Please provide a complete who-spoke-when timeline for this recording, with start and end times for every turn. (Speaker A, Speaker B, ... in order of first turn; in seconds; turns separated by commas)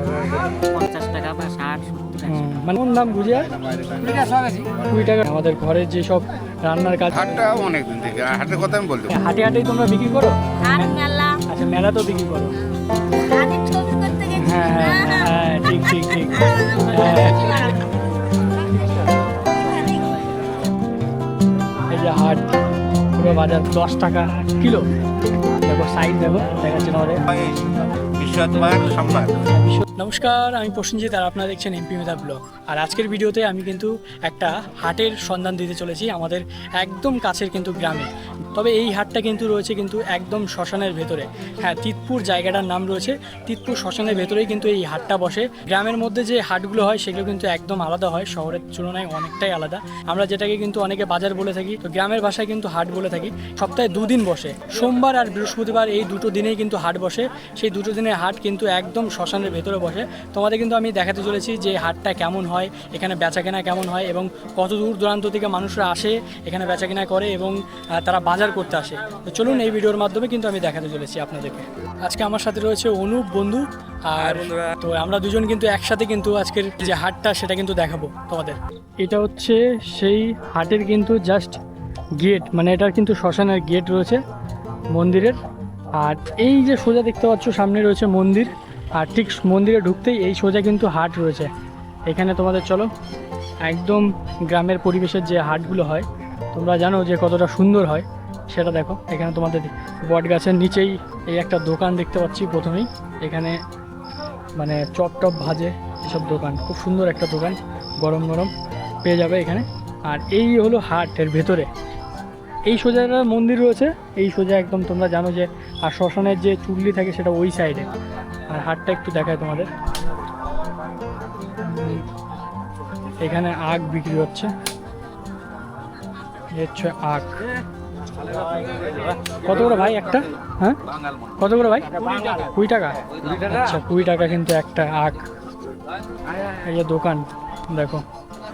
Speaker A: 0.2-2.5, Speaker B: 2.3-3.5, Speaker C: 3.5-4.7, Speaker B: 4.9-7.5, Speaker C: 7.1-9.1, Speaker B: 9.1-12.6, Speaker D: 10.6-11.4, Speaker D: 13.0-15.3, Speaker B: 14.3-17.7, Speaker D: 16.5-17.8, Speaker D: 18.5-20.2, Speaker B: 21.9-22.6, Speaker B: 23.1-24.9, Speaker B: 25.6-27.2, Speaker C: 27.3-27.6, Speaker C: 28.2-29.4, Speaker B: 29.5-81.6, Speaker B: 82.2-84.2, Speaker B: 84.9-85.4, Speaker B: 86.0-91.5, Speaker B: 92.1-92.9, Speaker B: 93.6-103.6, Speaker B: 104.6-108.5, Speaker B: 109.0-111.7, Speaker B: 112.7-117.9, Speaker B: 118.5-119.7, Speaker B: 121.6-122.0, Speaker B: 123.2-124.5, Speaker B: 126.5-127.5, Speaker B: 129.3-130.8, Speaker B: 131.4-135.2, Speaker B: 136.7-138.0